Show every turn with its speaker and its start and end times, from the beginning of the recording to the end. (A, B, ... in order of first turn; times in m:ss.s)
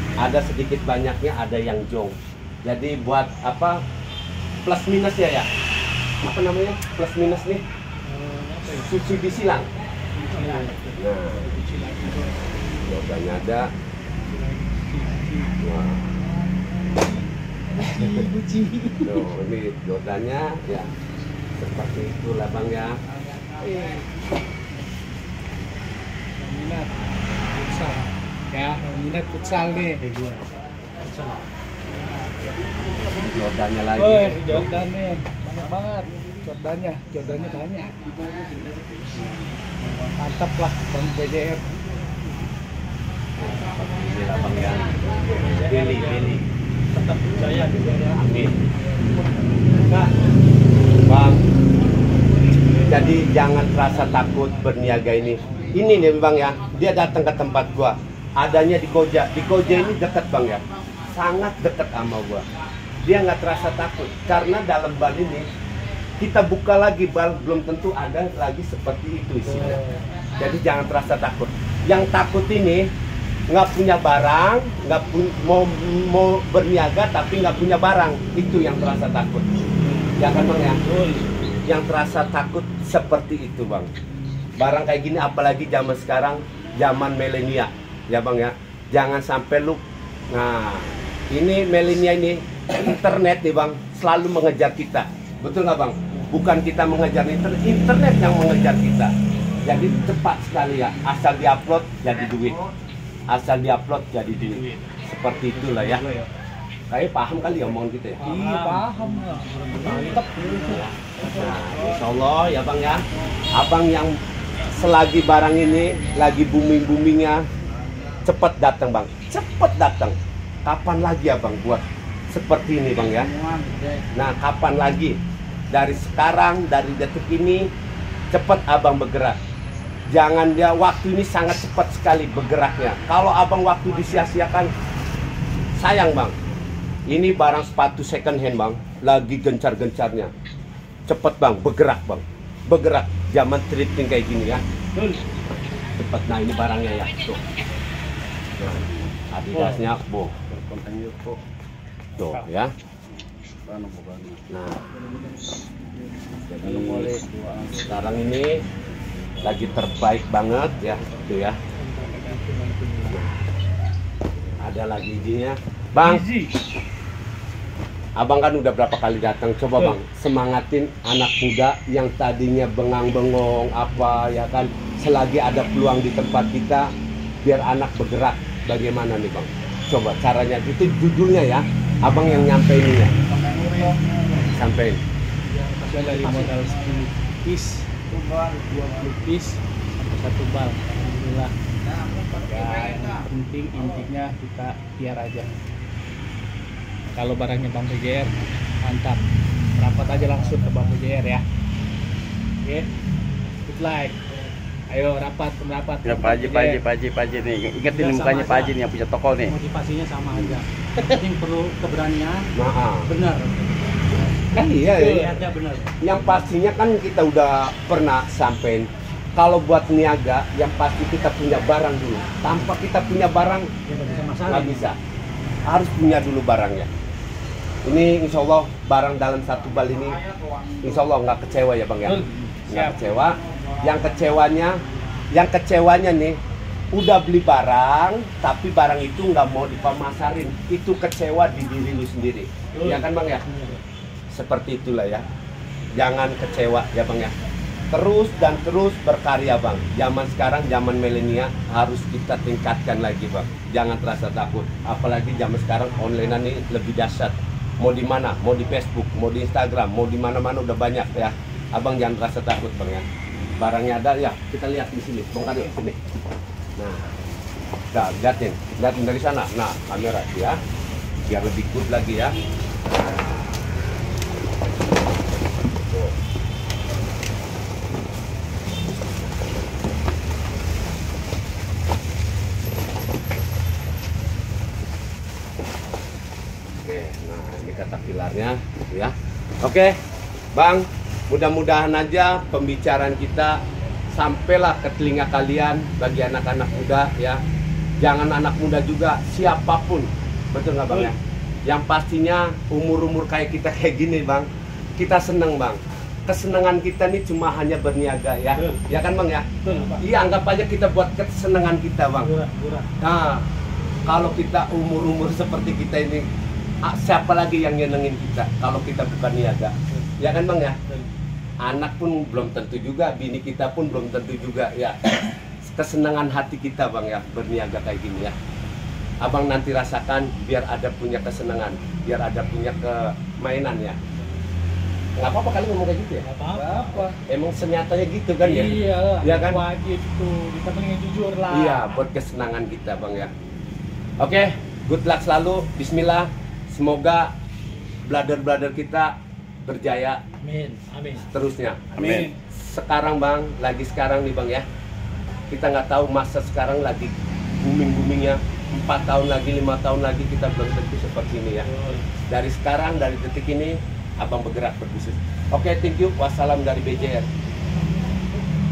0:00.2-0:03.8 A
0:04.6-0:05.5 A
0:06.2-0:07.6 A
0:08.0-0:08.9 B
0:08.7-0:09.7 A
0:10.2-0:12.4 B
0:10.3-0:10.6 C
0:11.0-0:11.5 A
0:12.8-0:13.7 A
0:14.2-0:15.5 B
0:15.6-0:16.1 A
0:17.0-0:17.2 B
0:17.8-0:19.2 B
0:17.9-0:18.2 A
0:19.0-0:20.9 A
0:21.6-0:23.0 A
0:23.6-0:24.0 B
0:26.4-0:26.9 B
0:27.5-0:30.4 B
0:31.0-0:31.5 B
0:33.0-0:34.8 A
0:34.0-0:38.1 B
0:39.8-0:41.8 B
0:43.4-0:46.4 A
0:45.5-0:48.2 B
0:48.1-0:48.6 A
0:49.8-0:50.1 B
0:51.1-0:51.4 A
0:52.8-1:02.4 A
0:55.4-0:55.8 B
1:03.0-1:05.5 A
1:06.2-1:09.8 A
1:09.4-1:10.1 B
1:10.4-1:12.9 A
1:13.5-1:19.5 A
1:19.8-1:21.2 B
1:20.2-1:20.8 A
1:21.7-1:23.9 A
1:24.6-1:39.1 A
1:39.6-1:42.6 A
1:43.3-1:46.0 A
1:44.4-1:44.9 B
1:45.5-1:46.3 B
1:46.9-1:48.2 A
1:48.2-1:50.8 B
1:48.2-1:50.8 C
1:50.6-1:53.0 A
1:53.5-1:57.4 A
1:58.2-2:03.3 A
2:03.4-2:03.7 C
2:04.1-2:05.2 A
2:05.7-2:07.7 A
2:08.3-2:09.4 A
2:10.1-2:14.7 A
2:15.8-2:16.4 A
2:17.1-2:20.3 A
2:21.1-2:24.6 A
2:25.0-2:25.2 B
2:26.0-2:27.4 A
2:28.6-2:30.3 A
2:28.7-2:29.0 D
2:29.5-2:29.8 B
2:30.5-2:31.4 D
2:32.2-2:32.7 A
2:33.7-2:34.4 D
2:34.5-2:34.8 A
2:36.5-2:37.1 A
2:36.6-2:37.9 D
2:37.9-2:38.6 A
2:39.4-2:41.6 A
2:41.8-2:43.2 B
2:43.1-2:43.4 A
2:44.6-2:46.2 A
2:46.0-2:46.5 B
2:48.2-2:56.9 A
2:57.4-3:03.1 A
3:03.5-3:04.0 C
3:04.5-3:05.0 A
3:05.5-3:07.0 C
3:05.9-3:07.9 B
3:08.1-3:08.9 C
3:08.7-3:11.5 B
3:12.4-3:15.6 B
3:17.1-3:19.2 B
3:19.8-3:21.4 B
3:23.7-3:24.2 B
3:24.9-3:26.8 B
3:26.0-3:29.6 D
3:27.9-3:28.8 B
3:29.5-3:31.2 B
3:31.1-3:32.4 C
3:32.6-3:33.1 A
3:33.1-3:33.7 C
3:33.3-3:34.0 B
3:34.5-3:35.5 A
3:34.8-3:35.4 B
3:35.3-3:35.9 C
3:36.0-3:43.7 A
3:43.9-3:44.9 B
3:44.5-3:45.0 A
3:45.7-3:46.9 A
3:47.8-3:50.2 A
3:50.8-3:54.8 A
3:52.0-3:53.0 B
3:55.3-3:56.4 A
3:56.9-4:03.5 A
4:02.7-4:03.8 B
4:04.3-4:05.2 A
4:06.0-4:07.3 A
4:07.9-4:23.0 A
4:23.6-4:26.0 A
4:26.8-4:27.2 A
4:27.9-4:30.6 A
4:31.3-4:32.4 A
4:35.8-4:36.2 A
4:46.8-4:50.0 A
4:50.5-4:57.4 A
4:58.0-5:12.3 A
5:08.6-5:08.8 B
5:09.6-5:10.0 B
5:12.2-5:12.9 B
5:13.0-5:13.5 A
5:14.1-5:16.2 A
5:16.8-5:20.8 A
5:21.6-5:25.0 A
5:25.6-5:28.4 A
5:29.2-5:34.0 A
5:35.2-5:39.6 A
5:36.2-5:37.2 B
5:38.4-5:42.0 B
5:41.5-5:43.3 A
5:44.2-5:47.3 A
5:48.1-5:50.2 A
5:50.4-5:51.3 B
5:51.2-5:54.6 A
5:52.0-5:52.3 D
5:52.0-5:52.3 B
5:55.5-6:01.7 A
6:01.6-6:02.1 B
6:02.3-6:07.3 A